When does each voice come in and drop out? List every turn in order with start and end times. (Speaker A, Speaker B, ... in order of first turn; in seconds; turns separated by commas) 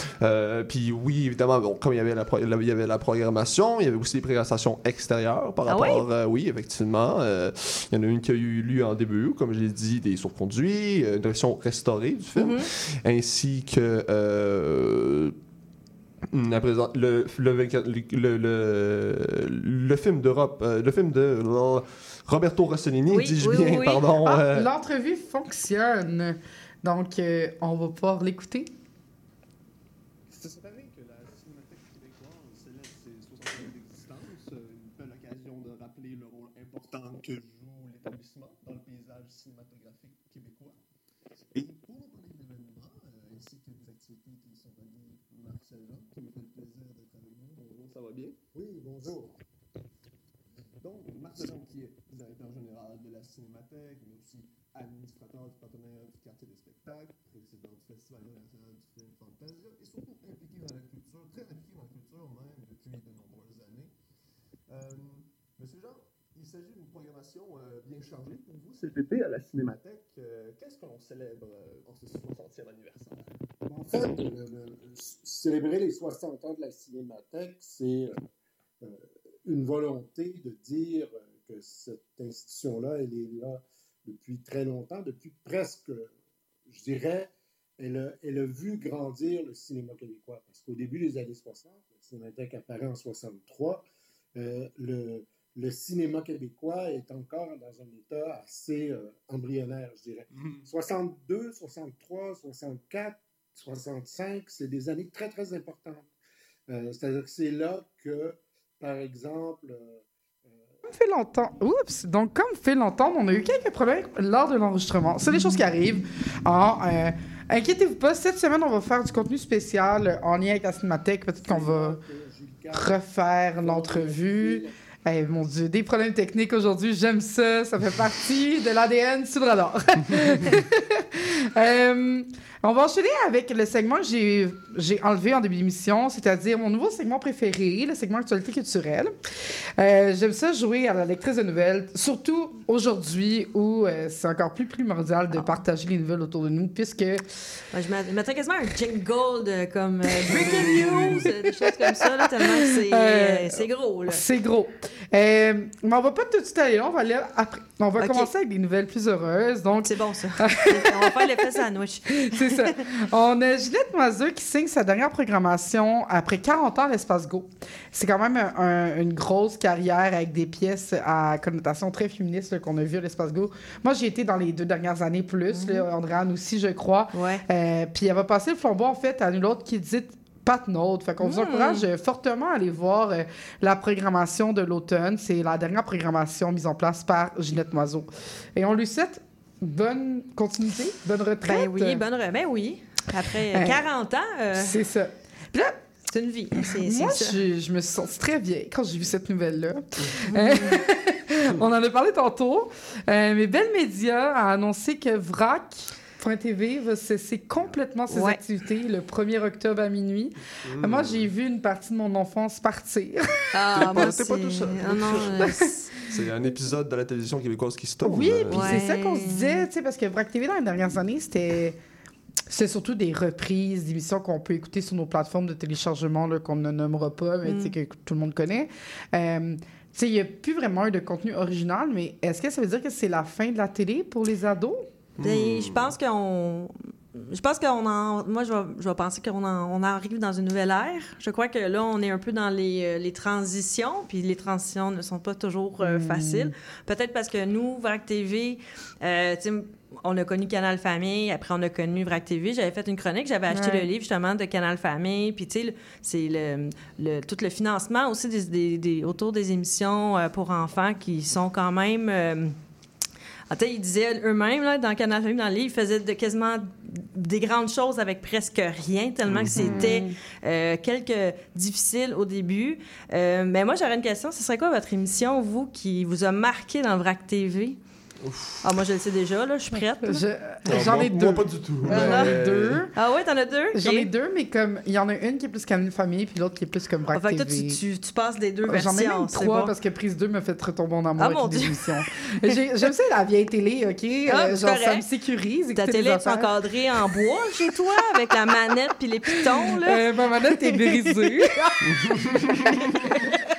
Speaker A: 0.2-15.3, Speaker B: 5.7-6.1, Speaker B: 12.4-12.7, Speaker A: 16.3-24.7, Speaker B: 23.1-24.1, Speaker C: 24.2-28.7, Speaker D: 30.3-40.8, Speaker D: 41.5-48.4, Speaker E: 48.5-49.4, Speaker D: 50.8-63.9, Speaker D: 64.7-73.3, Speaker E: 73.7-78.2, Speaker E: 78.8-86.1, Speaker E: 86.7-106.1, Speaker E: 106.7-110.7, Speaker C: 110.9-122.0, Speaker E: 121.4-124.7, Speaker C: 122.7-139.1, Speaker C: 139.8-147.2, Speaker B: 147.7-154.2, Speaker C: 150.2-192.0, Speaker B: 158.0-158.3, Speaker B: 159.8-162.8, Speaker B: 175.5-175.9, Speaker B: 177.1-177.4, Speaker B: 181.2-181.9, Speaker B: 191.5-194.8, Speaker C: 193.5-193.9, Speaker C: 194.5-195.8, Speaker B: 196.1-197.4, Speaker C: 196.6-213.2, Speaker B: 200.3-200.8, Speaker B: 208.1-208.4, Speaker A: 210.7-211.3, Speaker B: 213.5-215.9, Speaker A: 213.8-218.8, Speaker C: 218.0-221.8, Speaker B: 218.5-219.7, Speaker C: 222.5-234.8, Speaker B: 227.4-227.7, Speaker A: 235.2-235.9, Speaker B: 235.2-262.6, Speaker C: 245.8-246.5, Speaker C: 253.5-253.9, Speaker B: 263.5-277.8, Speaker A: 269.3-270.0, Speaker C: 269.6-270.1, Speaker A: 278.2-278.7, Speaker B: 278.6-280.2, Speaker C: 280.0-282.9, Speaker A: 280.7-282.8, Speaker B: 281.9-282.4, Speaker B: 282.9-284.1, Speaker C: 283.8-287.8, Speaker B: 287.1-289.7, Speaker C: 288.7-296.5, Speaker B: 291.2-291.9, Speaker B: 294.3-295.1, Speaker B: 295.7-301.8, Speaker C: 299.6-301.5, Speaker A: 301.9-302.6, Speaker B: 302.7-303.4